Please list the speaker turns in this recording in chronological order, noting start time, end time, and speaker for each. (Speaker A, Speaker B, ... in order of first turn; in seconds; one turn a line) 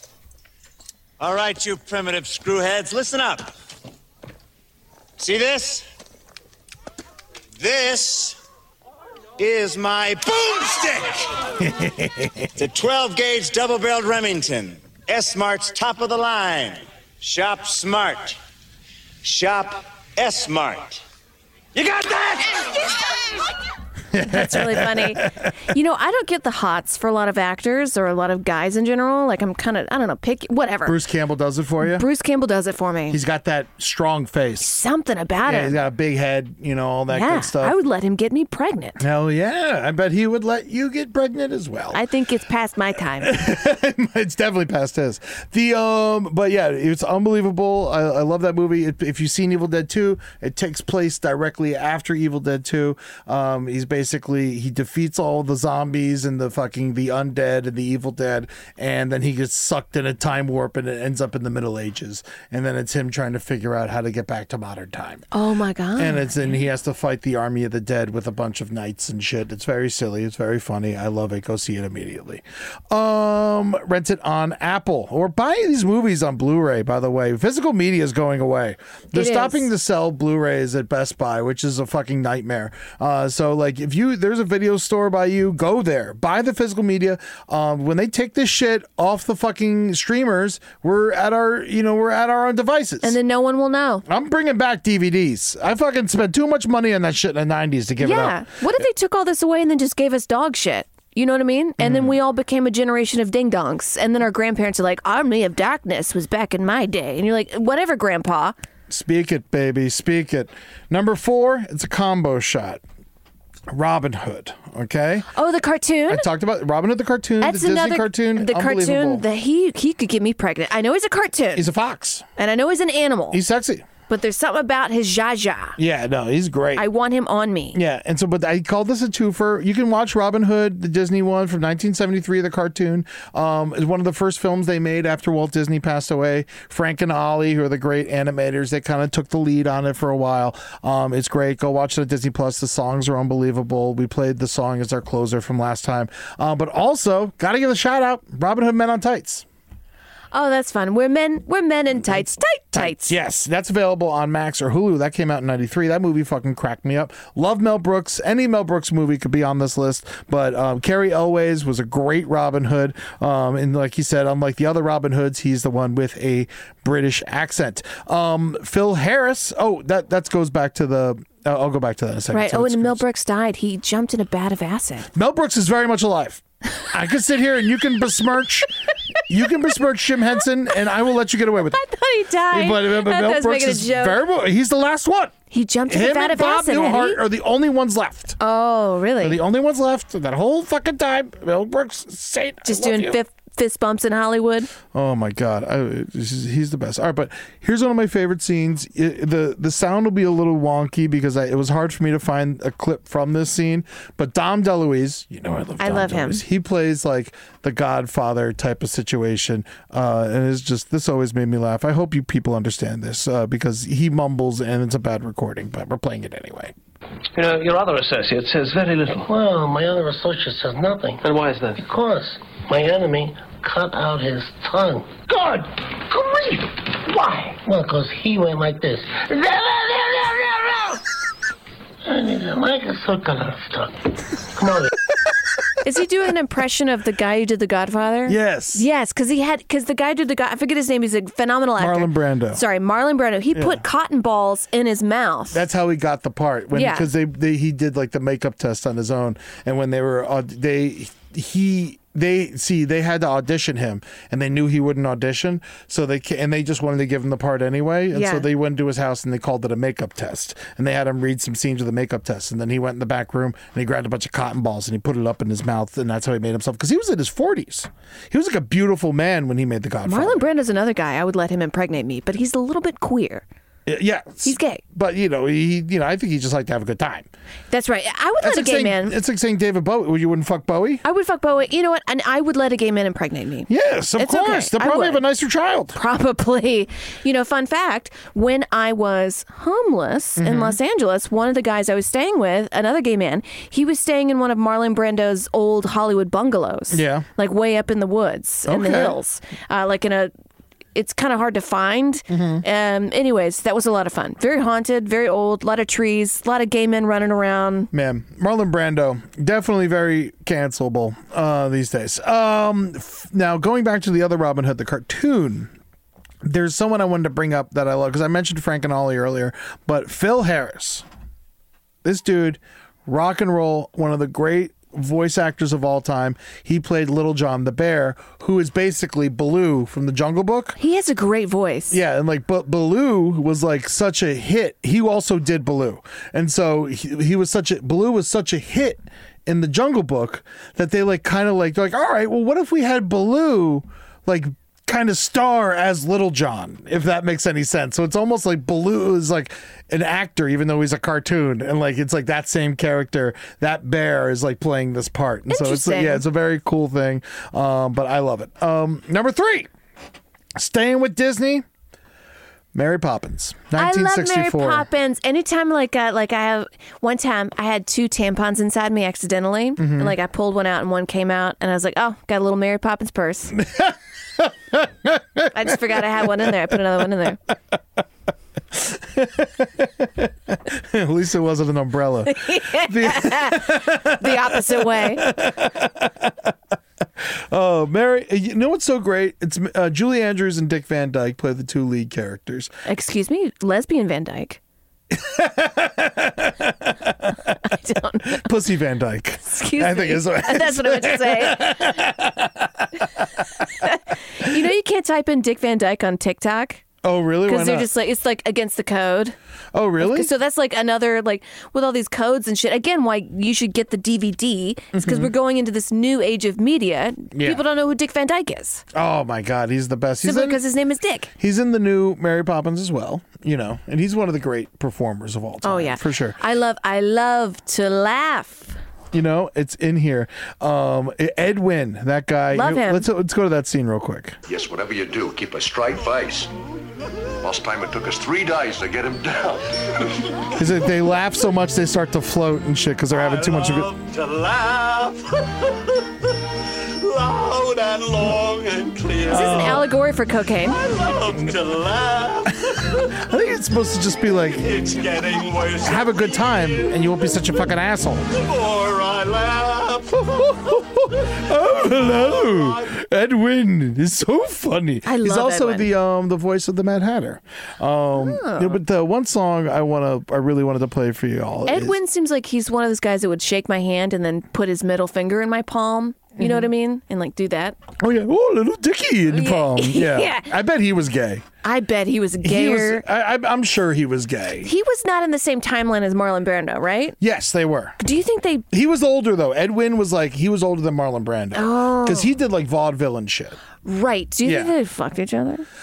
Speaker A: 1.2-3.5
Speaker A: 5.2-5.8
Speaker A: 7.6-8.4
Speaker A: 9.4-11.2
Speaker B: 11.6-12.5
Speaker A: 12.6-18.4
Speaker A: 19.2-21.0
Speaker A: 21.8-22.4
Speaker B: 24.1-25.3
Speaker C: 24.2-31.0
Speaker B: 30.8-32.1
Speaker C: 31.8-33.2
Speaker B: 33.1-34.8
Speaker C: 34.6-35.8
Speaker B: 35.4-37.8
Speaker C: 37.1-39.0
Speaker B: 39.0-42.0
Speaker C: 41.9-43.3
Speaker B: 43.2-65.2
Speaker C: 65.3-66.5
Speaker B: 66.0-93.2
Speaker C: 79.1-79.7
Speaker C: 93.0-94.0
Speaker B: 94.0-98.4
Speaker C: 98.0-108.5
Speaker B: 101.8-102.2
Speaker B: 108.9-112.8
Speaker B: 113.7-115.3
Speaker C: 115.3-116.2
Speaker B: 116.1-119.2
Speaker C: 117.4-121.7
Speaker B: 121.5-122.2
Speaker C: 122.4-123.4
Speaker B: 123.3-123.8
Speaker C: 124.1-125.8
Speaker B: 125.8-126.8
Speaker C: 126.8-127.8
Speaker B: 127.7-149.4
Speaker C: 150.3-153.1
Speaker B: 152.7-173.0
Speaker C: 172.3-175.1
Speaker B: 175.1-178.7
Speaker B: 179.3-181.8
Speaker C: 181.7-184.2
Speaker B: 182.5-185.3
Speaker C: 185.5-187.2
Speaker B: 185.9-188.4
Speaker C: 188.4-189.4
Speaker B: 189.2-193.2
Speaker C: 192.7-194.7
Speaker B: 194.9-216.7
Speaker C: 205.8-206.4
Speaker D: 217.3-219.3
Speaker E: 219.3-221.2
Speaker D: 221.2-221.8
Speaker E: 221.8-231.0
Speaker E: 232.0-234.0
Speaker E: 234.5-234.9
Speaker C: 235.8-245.6
Speaker B: 238.2-238.8
Speaker B: 241.8-242.6
Speaker B: 243.5-243.8
Speaker B: 245.5-270.5
Speaker C: 246.7-247.1
Speaker C: 258.1-258.5
Speaker C: 270.1-273.4
Speaker B: 273.9-277.3
Speaker C: 274.4-274.8
Speaker C: 277.7-279.1
Speaker B: 278.4-281.0
Speaker C: 281.0-285.2
Speaker B: 283.7-286.0
Speaker C: 285.9-300.3
Speaker B: 290.4-290.8
Speaker B: 296.9-297.3
Speaker B: 298.7-299.2
Speaker C: 300.9-307.9
Speaker B: 302.3-302.6
Speaker B: 307.9-315.7
Speaker B: 316.4-321.1
Speaker B: 322.0-330.8
Speaker C: 330.8-332.0
Speaker B: 331.9-359.7
Speaker C: 355.5-356.2
Speaker B: 360.6-361.6
Speaker B: 362.7-364.9
Speaker C: 363.7-373.6
Speaker B: 369.8-370.1
Speaker B: 373.6-376.7
Speaker C: 375.5-377.4
Speaker B: 378.7-386.5
Speaker C: 382.3-385.3
Speaker B: 387.2-392.7
Speaker C: 392.9-394.6
Speaker B: 395.1-397.5
Speaker C: 397.7-398.4
Speaker B: 398.3-403.4
Speaker C: 399.4-401.9
Speaker C: 403.8-406.8
Speaker B: 407.0-407.9
Speaker C: 407.5-409.3
Speaker B: 409.7-410.3
Speaker C: 410.0-418.8
Speaker B: 414.9-415.3
Speaker B: 417.3-417.6
Speaker B: 418.9-420.6
Speaker C: 420.2-421.3
Speaker B: 421.4-426.4
Speaker C: 425.6-428.7
Speaker B: 429.1-434.4
Speaker C: 432.5-433.1
Speaker F: 434.5-436.5
Speaker F: 437.4-439.3
Speaker G: 439.4-439.6
Speaker B: 440.6-443.9
Speaker G: 443.1-446.1
Speaker G: 447.0-449.7
Speaker C: 449.3-450.8
Speaker B: 449.3-449.9
Speaker G: 450.6-453.1
Speaker B: 453.0-455.0
Speaker G: 454.5-457.6
Speaker B: 455.8-458.3
Speaker G: 458.3-462.9
Speaker B: 460.4-471.9
Speaker C: 465.1-465.9
Speaker C: 468.1-468.8
Speaker C: 471.6-477.8
Speaker B: 476.4-476.7
Speaker B: 478.0-481.4
Speaker C: 479.3-480.5
Speaker C: 481.6-483.0
Speaker B: 482.4-484.7
Speaker C: 484.6-487.2
Speaker B: 487.2-488.0
Speaker C: 488.0-488.6
Speaker B: 488.7-493.6
Speaker C: 491.5-492.3
Speaker C: 493.8-495.6
Speaker B: 494.4-494.7